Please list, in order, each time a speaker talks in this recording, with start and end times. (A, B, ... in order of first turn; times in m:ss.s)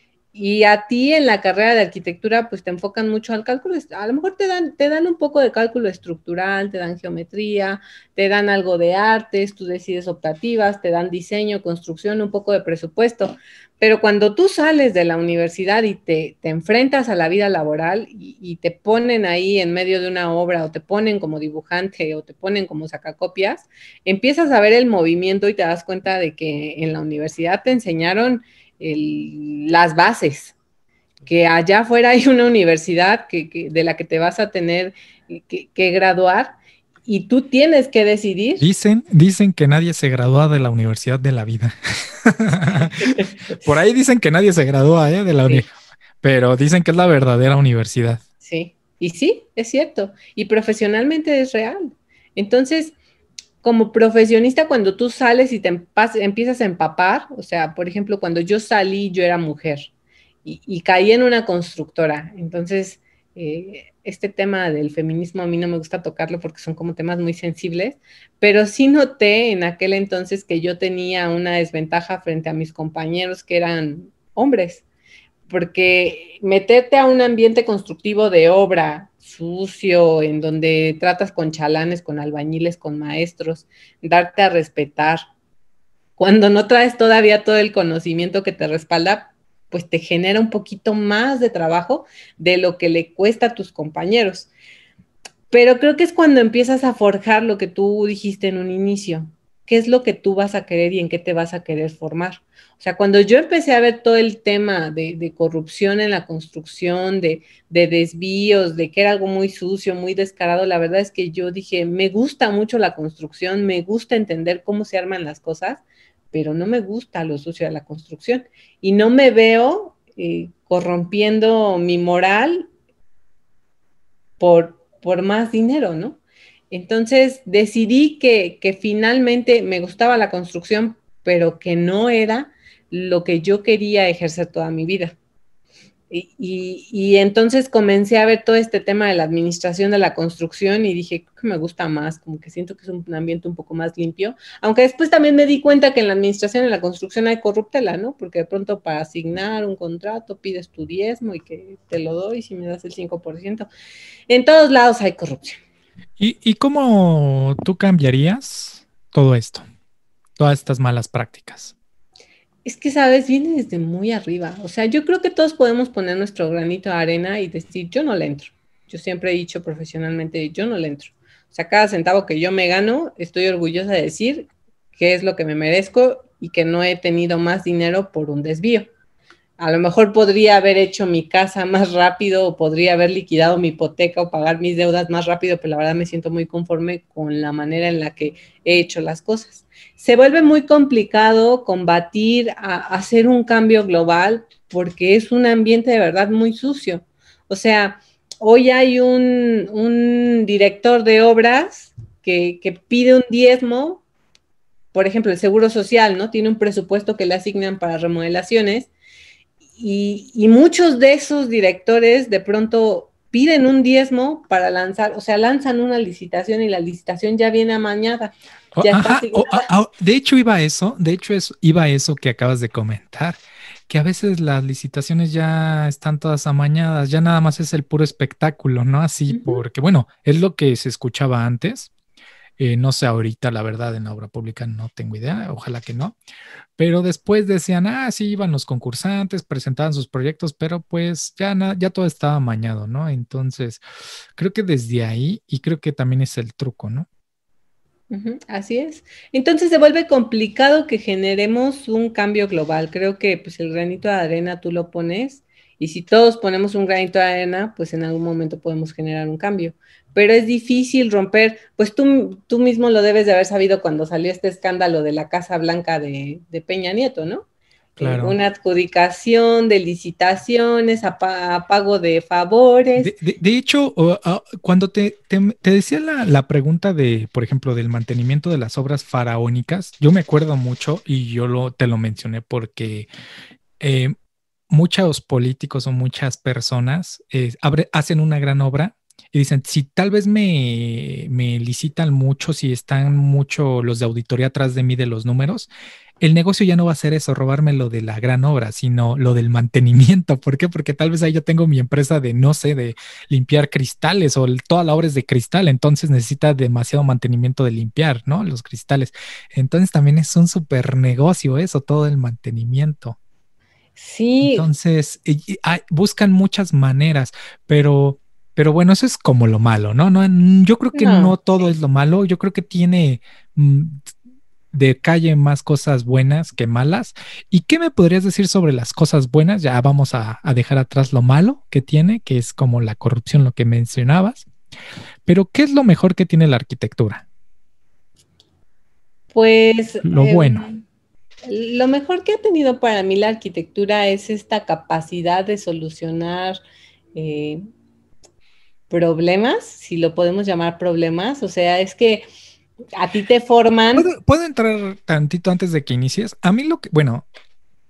0:00.3-0:30.6 A
0:31.3-0:36.6 A
0:37.1-0:38.7 A
0:38.6-0:45.7 B
0:42.7-0:43.7 A
0:46.2-0:48.2 B
0:48.4-0:53.0 A
0:53.6-0:59.9 A
1:00.4-1:14.8 A
1:15.5-1:25.2 A
1:26.2-1:34.5 A
1:35.5-2:02.7 A
2:04.4-2:06.2 A
2:06.7-2:15.2 A
2:16.1-2:33.7 A
2:34.3-2:35.6 A
2:36.2-2:39.6 B
2:40.4-2:41.8 B
2:42.7-2:58.9 A
2:59.6-3:24.0 A
3:24.9-3:28.9 A
3:29.8-3:39.7 A
3:38.8-3:51.9 B
3:49.3-3:49.6 A
3:52.6-3:56.2 B
3:56.8-4:03.8 B
4:04.4-4:07.1 B
4:08.1-4:27.4 A
4:28.0-4:28.4 B
4:28.0-4:33.1 A
4:33.0-4:43.1 B
4:43.8-4:44.1 B
4:44.7-4:55.7 B
4:56.2-5:13.2 B
5:14.0-5:14.7 A
5:14.4-5:24.0 B
5:20.9-5:21.4 A
5:24.7-5:34.5 B
5:35.3-5:37.3 B
5:39.3-5:40.8 A
5:40.0-5:40.7 B
5:41.5-5:46.6 A
5:47.2-5:47.6 A
5:48.9-5:52.3 A
5:53.0-5:54.1 A
5:54.0-5:57.3 B